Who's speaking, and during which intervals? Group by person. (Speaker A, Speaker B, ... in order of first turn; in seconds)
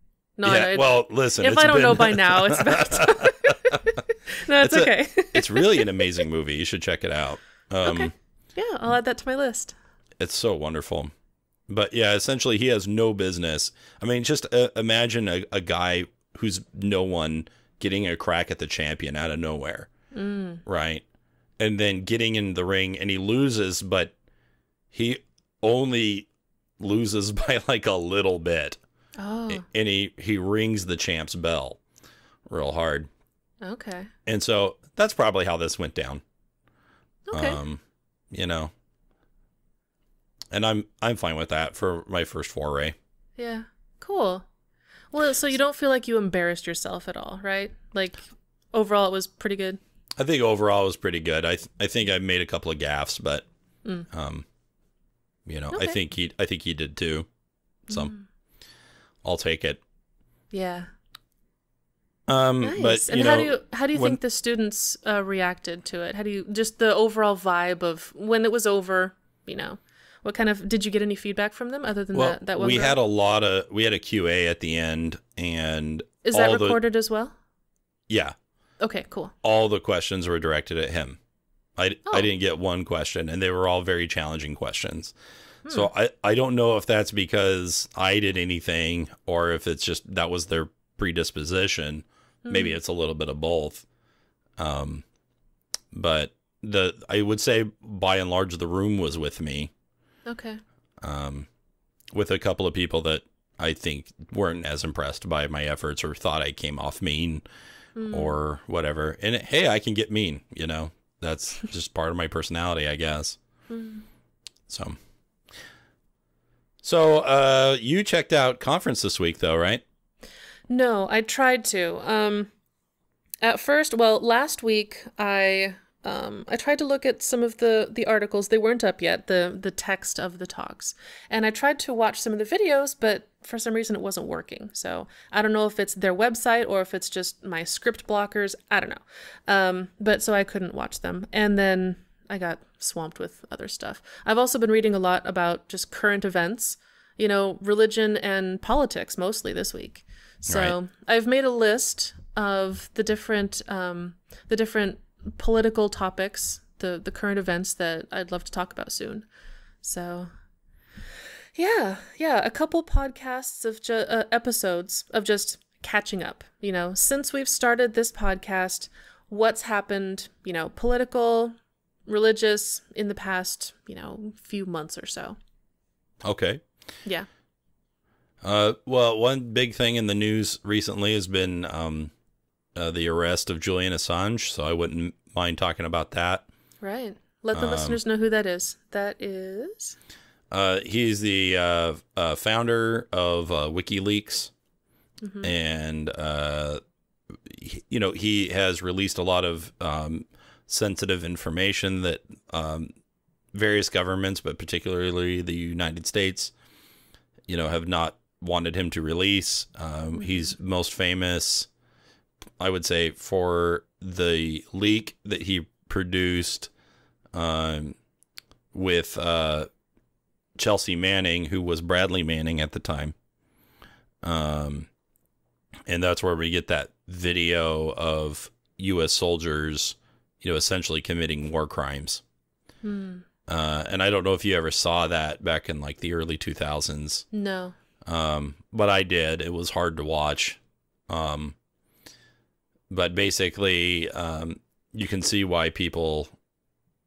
Speaker A: 0.4-6.2, 7.8-9.7, 20.1-20.6, 29.2-29.6, 33.6-34.1, 37.3-37.6, 43.4-44.5, 45.1-48.2, 48.7-49.8, 55.7-56.0, 57.9-58.2, 60.5-60.9, 62.6-73.0, 76.2-77.3, 78.8-79.3, 85.7-85.9, 92.5-92.8, 100.3-100.6, 108.0-108.4, 113.7-114.0, 120.7-122.5, 123.4-159.3, 159.8-160.3, 161.6-171.6, 172.1-175.4, 186.8-190.0, 195.2-195.5, 232.8-233.2, 237.3-237.8
Speaker B: 0.4-4.0, 4.6-8.1, 10.2-11.1, 11.7-19.9, 20.6-21.0, 21.6-24.1, 24.9-26.3, 26.8-28.8, 29.5-31.8, 32.5-33.1, 34.3-36.2, 37.3-38.7, 40.5-43.0, 50.2-53.5, 54.1-54.5, 55.5-57.3, 59.2-59.8, 62.3-64.2, 72.1-76.8, 78.1-78.3, 79.4-81.2, 81.8-85.1, 85.7-93.8, 94.6-95.0, 95.9-99.7, 101.0-101.5, 102.2-107.4, 108.1-113.4, 114.7-115.0, 116.8-119.8, 150.5-150.8, 176.2-176.6, 178.4-182.1, 182.8-186.4, 187.5-188.0, 190.5-194.5, 195.4-196.8, 197.4-202.9, 203.5-206.5, 207.5-211.7, 212.6-216.7, 217.3-218.0, 218.7-219.7, 220.6-223.2, 224.2-224.9, 225.9-232.2, 233.5-237.3, 238.1-241.6, 242.9-246.3